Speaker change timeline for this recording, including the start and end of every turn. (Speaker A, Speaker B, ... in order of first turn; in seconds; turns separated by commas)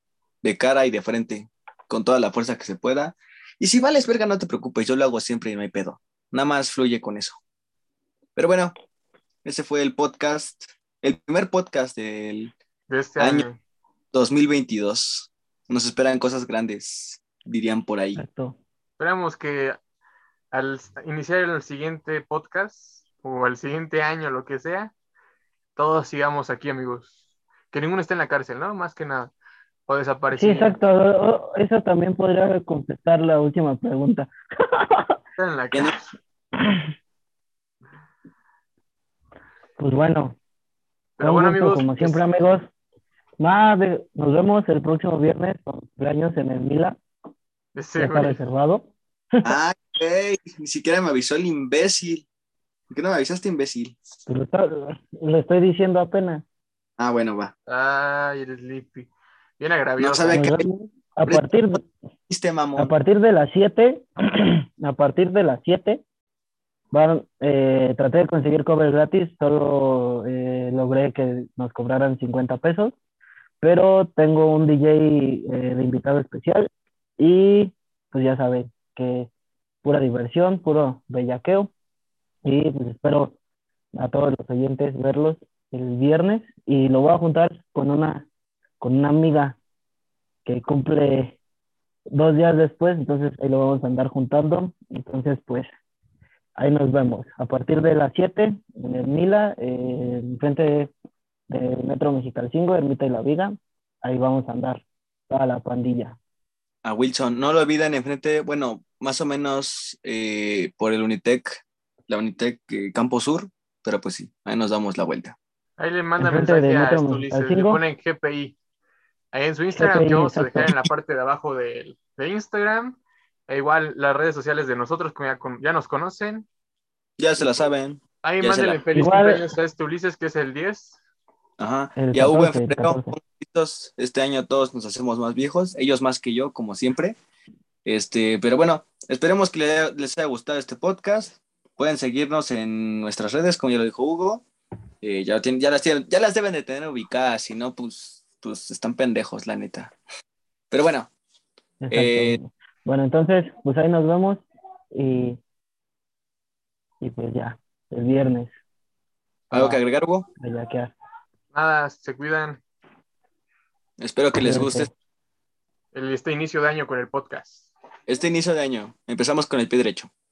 Speaker A: 0.4-7.4, Speaker A: 8.4-8.7, Speaker A: 9.4-12.5, Speaker B: 12.9-13.6, Speaker A: 13.2-13.5, Speaker A: 14.1-18.2, Speaker C: 18.2-18.6, Speaker B: 19.0-19.8, Speaker B: 20.5-24.9, Speaker B: 25.8-27.1, Speaker B: 27.7-29.3, Speaker B: 29.9-30.8, Speaker C: 30.4-35.2, Speaker B: 35.4-36.1, Speaker C: 36.6-36.9, Speaker C: 39.8-40.4, Speaker B: 41.2-42.2, Speaker C: 41.2-42.7, Speaker C: 43.4-47.0, Speaker B: 47.8-48.4, Speaker C: 48.0-49.6, Speaker A: 49.4-52.3, Speaker A: 52.9-54.0, Speaker C: 54.3-56.4, Speaker A: 57.0-57.5, Speaker B: 57.7-60.5, Speaker A: 60.0-62.9, Speaker C: 60.3-61.9, Speaker C: 62.8-66.0, Speaker C: 66.9-73.0, Speaker C: 73.6-79.3, Speaker C: 79.8-81.7, Speaker C: 82.4-83.4, Speaker C: 83.9-88.3, Speaker C: 88.8-89.6, Speaker C: 90.5-91.4, Speaker C: 92.1-95.7, Speaker C: 96.6-100.9, Speaker C: 101.5-106.2, Speaker A: 106.8-115.4, Speaker B: 115.8-118.5, Speaker C: 116.2-117.8, Speaker B: 119.3-126.5, Speaker C: 119.8-120.9, Speaker A: 127.2-128.8, Speaker B: 128.2-131.0, Speaker C: 128.9-129.4, Speaker A: 131.6-137.2, Speaker C: 132.0-133.2, Speaker A: 137.8-144.4, Speaker A: 145.0-149.9, Speaker A: 150.7-151.1, Speaker C: 151.8-155.4, Speaker A: 151.9-152.4, Speaker C: 157.0-158.6, Speaker C: 159.5-159.8, Speaker A: 159.5-160.3, Speaker C: 160.4-160.9, Speaker B: 161.5-162.6, Speaker A: 164.0-164.9, Speaker C: 164.4-164.9, Speaker B: 165.9-167.7, Speaker A: 168.1-170.1